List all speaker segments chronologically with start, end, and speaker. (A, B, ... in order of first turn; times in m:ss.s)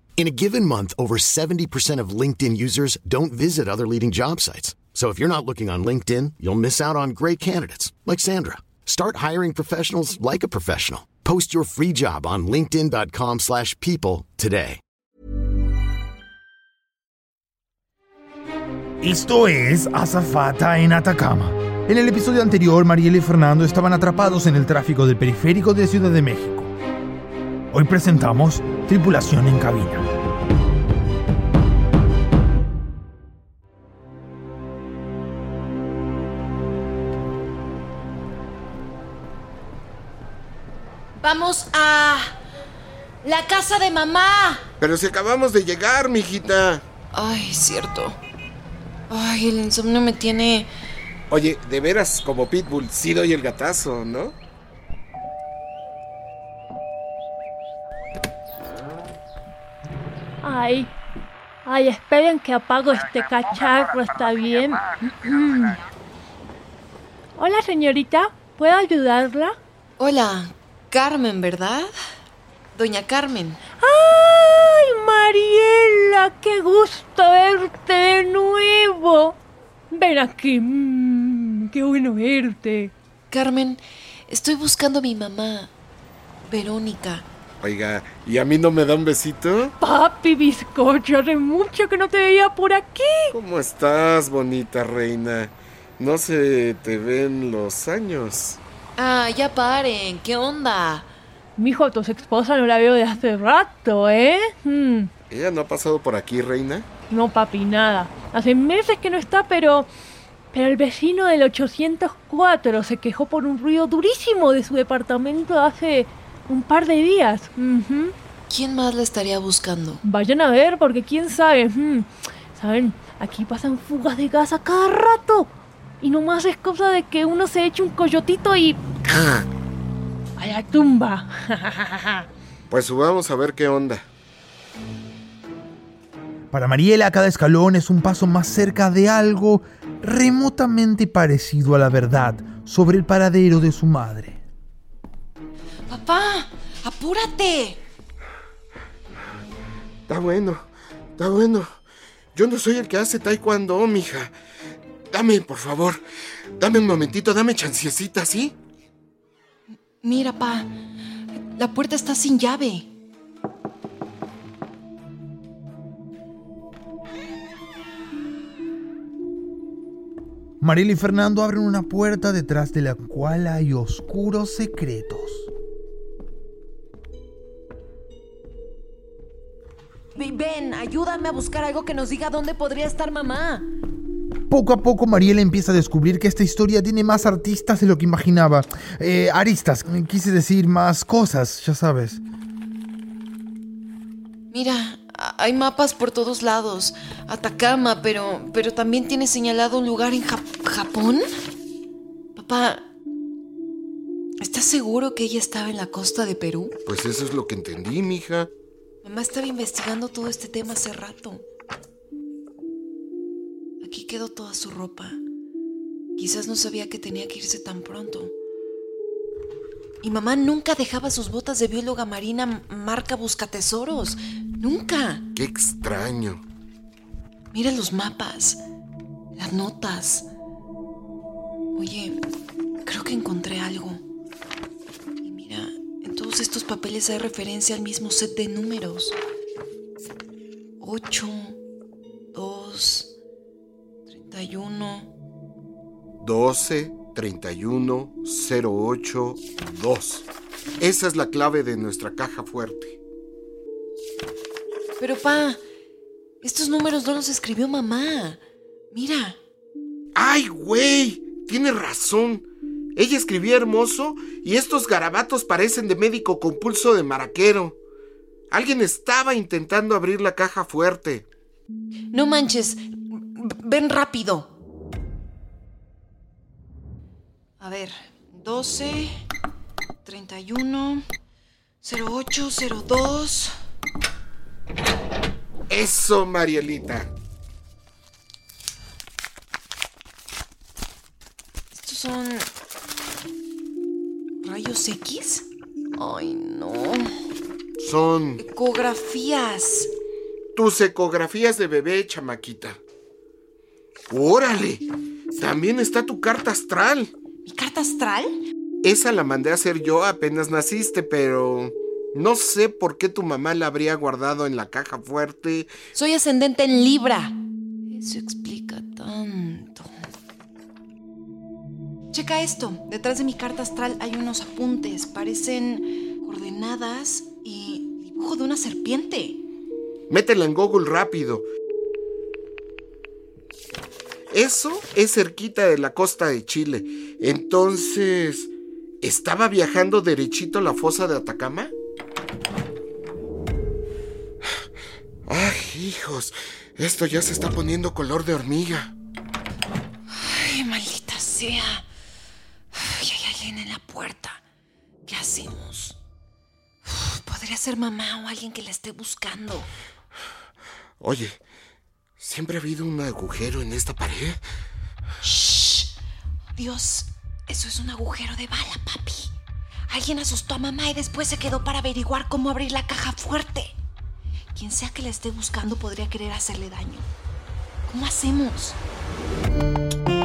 0:00.2-0:14.8 A
0:19.0-0:26.7 B
0:27.7-0:30.1 B
0:41.2-0:42.4 C
0:43.2-0:44.6 C
0:44.8-0:46.8 D
0:47.1-0:48.2 C
0:49.1-0:50.7 C
0:51.3-0:54.3 D
1:00.4-1:00.9 E
1:01.6-1:05.8 E
1:07.4-1:09.6 E
1:10.0-1:11.9 C
1:12.7-1:13.6 C
1:13.8-1:19.4 E
1:19.9-1:22.9 E
1:23.3-1:25.7 C
1:26.5-1:27.2 C
1:27.6-1:29.7 D
1:29.8-1:33.3 E
1:33.3-1:38.6 D
1:39.0-1:41.1 C
1:41.6-1:45.1 E
1:45.3-1:46.9 D
1:47.1-1:49.9 E
1:50.5-1:58.1 E
1:58.5-2:00.0 C
2:00.0-2:05.5 E
2:06.0-2:08.8 E
2:09.1-2:09.5 D
2:10.4-2:12.2 E
2:12.7-2:14.1 D
2:16.5-2:24.4 B
2:25.9-2:27.8 C
2:30.1-2:31.8 D
2:32.3-2:34.3 D
2:35.1-2:36.0 D
2:36.6-2:38.5 D
2:40.0-2:40.7 C
2:41.5-2:42.9 C
2:50.6-2:55.5 B
3:00.1-3:03.7 C
3:04.5-3:12.2 B
3:14.5-3:21.2 C
3:22.4-3:22.9 C
3:24.4-3:26.8 C
3:26.8-3:28.5 D
3:29.0-3:31.4 C
3:33.8-3:35.2 C
3:36.2-3:38.3 C
3:40.0-3:45.2 C
3:45.3-3:46.4 D
3:47.5-3:48.6 C
3:49.4-3:50.3 C
3:51.7-3:52.2 C
3:52.8-3:54.0 C
3:55.2-3:59.2 C
4:00.8-4:01.6 C
4:02.3-4:03.1 C
4:04.1-4:05.1 C
4:06.2-4:10.3 D
4:10.8-4:13.0 D
4:15.0-4:15.6 C
4:16.4-4:18.4 C
4:18.9-4:19.4 C
4:20.1-4:27.8 D
4:28.5-4:31.2 D
4:32.1-4:34.5 C
4:37.6-4:39.2 C
4:40.0-4:41.0 C
4:41.8-4:43.5 C
4:45.7-4:47.1 D
4:51.7-4:52.5 C
4:54.4-4:57.1 C
4:57.8-4:58.4 D
4:58.4-4:59.9 C
5:00.5-5:02.8 D
5:04.1-5:07.1 D
5:07.4-5:08.3 C
5:08.8-5:15.7 D
5:15.9-5:17.4 C
5:17.9-5:19.9 C
5:22.1-5:29.4 C
5:30.1-5:31.5 D
5:34.3-5:41.7 D
5:45.3-5:48.9 D
5:50.1-5:51.9 C
5:52.7-5:54.4 C
5:55.0-5:56.0 C
5:56.8-5:59.7 C
6:01.0-6:01.4 D
6:02.2-6:04.4 D
6:05.2-6:05.9 C
6:06.6-6:09.3 C
6:09.9-6:13.7 C
6:14.5-6:17.1 C
6:17.8-6:18.8 C